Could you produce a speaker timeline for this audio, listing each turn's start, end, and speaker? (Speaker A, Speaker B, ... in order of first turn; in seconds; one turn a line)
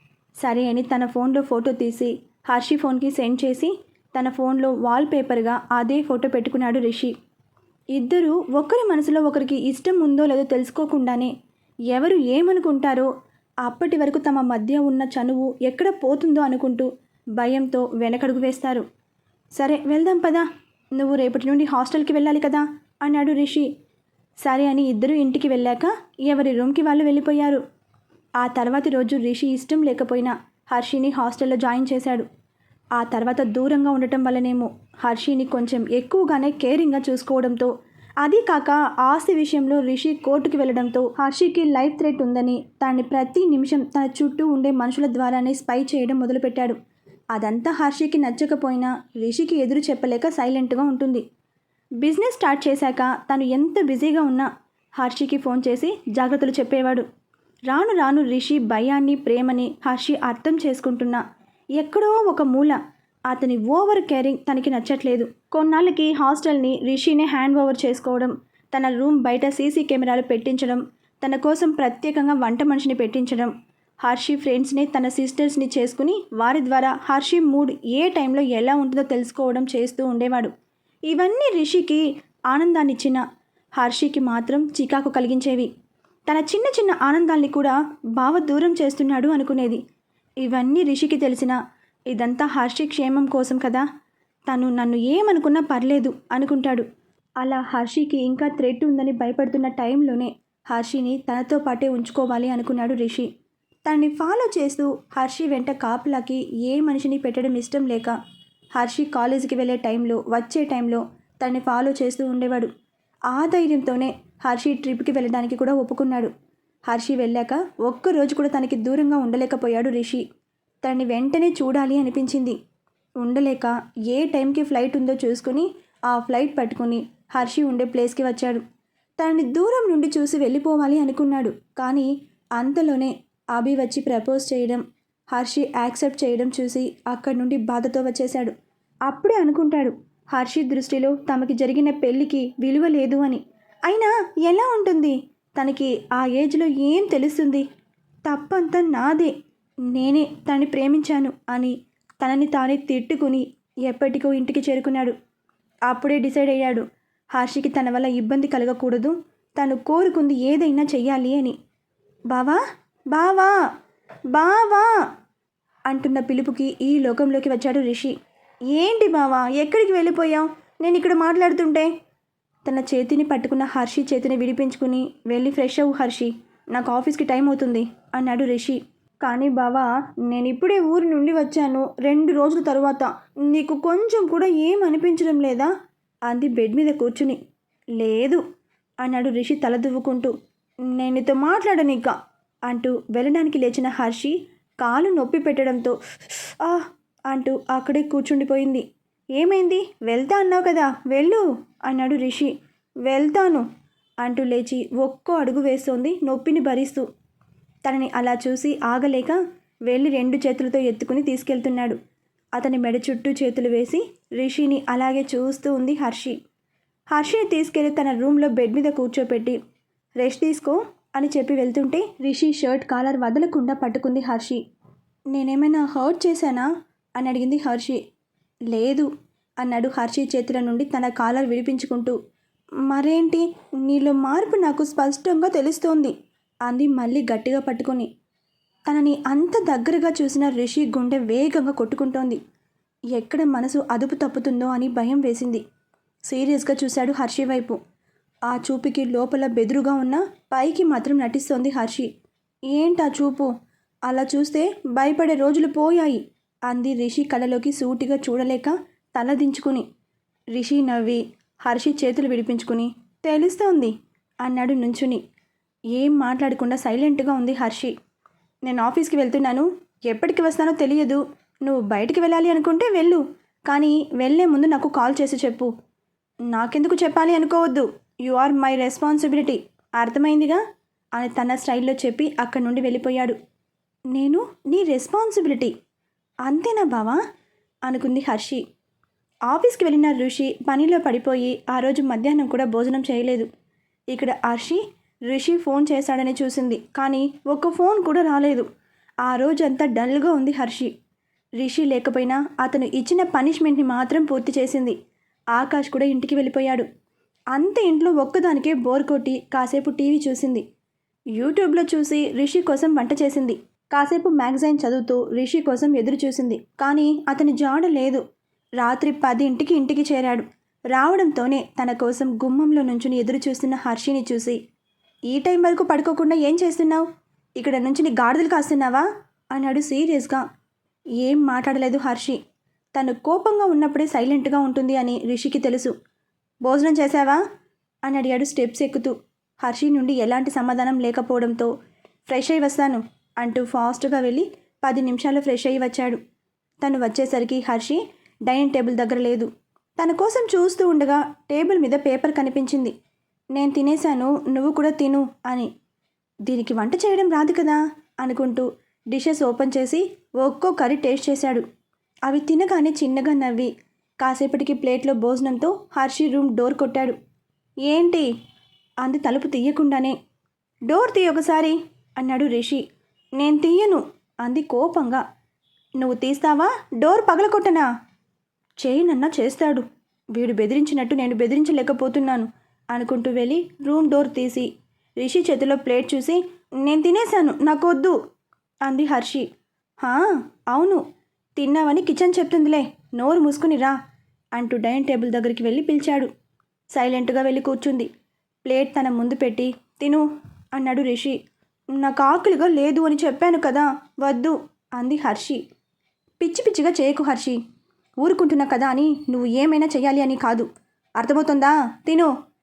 Speaker A: 0.4-7.1
Speaker A: 7.9-11.3
Speaker A: 11.9-13.1
Speaker A: 13.6-18.9
Speaker A: 19.6-23.7
Speaker A: 24.4-27.6
Speaker A: 28.4-32.3
Speaker A: 33.0-37.7
Speaker A: 38.2-46.8
Speaker A: 47.3-51.2
Speaker A: 52.0-57.0
Speaker A: 57.7-61.2
Speaker A: 61.8-73.5
Speaker A: 74.0-80.5
Speaker A: 81.1-83.2
Speaker A: 83.8-85.7
Speaker A: 86.3-89.8
Speaker A: 90.4-91.6
Speaker A: 92.1-93.8
Speaker A: 94.5-96.8
Speaker A: 97.4-103.3
Speaker A: 103.8-108.1
Speaker A: 108.8-112.7
Speaker A: 113.3-116.3
Speaker A: 116.9-120.2
Speaker A: 120.8-122.6
Speaker A: 123.2-128.6
Speaker A: 129.2-138.5
Speaker A: 139.1-147.7
Speaker A: 148.3-149.3
Speaker A: 149.9-155.1
Speaker A: 155.9-161.6
Speaker A: 162.3-162.6
Speaker A: 163.1-163.5
Speaker A: 164.3-164.9
Speaker A: 165.9-168.1
Speaker A: 168.7-171.9
Speaker A: 172.7-185.7
Speaker A: 186.3-187.4
Speaker A: 188.0-188.4
Speaker A: 189.0-190.3
Speaker A: 190.9-192.2
Speaker A: 192.7-196.0
Speaker A: 196.5-198.8
Speaker A: 199.3-202.5
Speaker A: 203.1-203.7
Speaker A: 204.2-207.0
Speaker A: 207.8-212.0
Speaker A: 212.5-216.4
Speaker A: 217.1-219.6
Speaker A: 220.2-224.6
Speaker A: 225.3-228.0
Speaker A: 228.7-229.1
Speaker A: 229.6-232.2
Speaker A: 232.8-236.1
Speaker A: 236.7-238.1
Speaker A: 238.9-242.4
Speaker A: 243.1-245.6
Speaker A: 246.3-247.8
Speaker A: 248.4-252.1
Speaker A: 252.7-253.5
Speaker A: 254.1-259.9
Speaker A: 260.5-265.2
Speaker A: 265.9-267.9
Speaker A: 268.6-275.7
Speaker A: 276.5-280.6
Speaker A: 281.1-283.4
Speaker A: 284.1-285.7
Speaker A: 286.4-287.2
Speaker A: 287.9-288.6
Speaker A: 289.5-293.5
Speaker A: 294.1-298.7
Speaker A: 299.2-300.9
Speaker A: 301.6-304.9
Speaker A: 305.5-306.9
Speaker A: 307.5-310.6
Speaker A: 311.4-318.2
Speaker A: 318.8-324.6
Speaker A: 325.3-327.0
Speaker A: 327.6-330.4
Speaker A: 331.2-332.4
Speaker A: 332.9-335.9
Speaker A: 336.6-337.4
Speaker A: 338.1-341.7
Speaker A: 342.3-346.2
Speaker A: 346.8-352.9
Speaker A: 353.5-355.7
Speaker A: 356.4-361.6
Speaker A: 362.3-367.2
Speaker A: 367.9-368.3
Speaker A: 369.0-370.1
Speaker A: 370.9-372.8
Speaker A: 373.4-375.2
Speaker A: 376.0-377.9
Speaker A: 378.8-388.1
Speaker A: 388.9-389.4
Speaker A: 390.0-391.0
Speaker A: 391.6-394.0
Speaker A: 394.5-396.3
Speaker A: 396.9-398.1
Speaker A: 398.6-400.2
Speaker A: 400.7-401.4
Speaker A: 401.9-405.6
Speaker A: 406.4-407.6
Speaker A: 408.2-412.3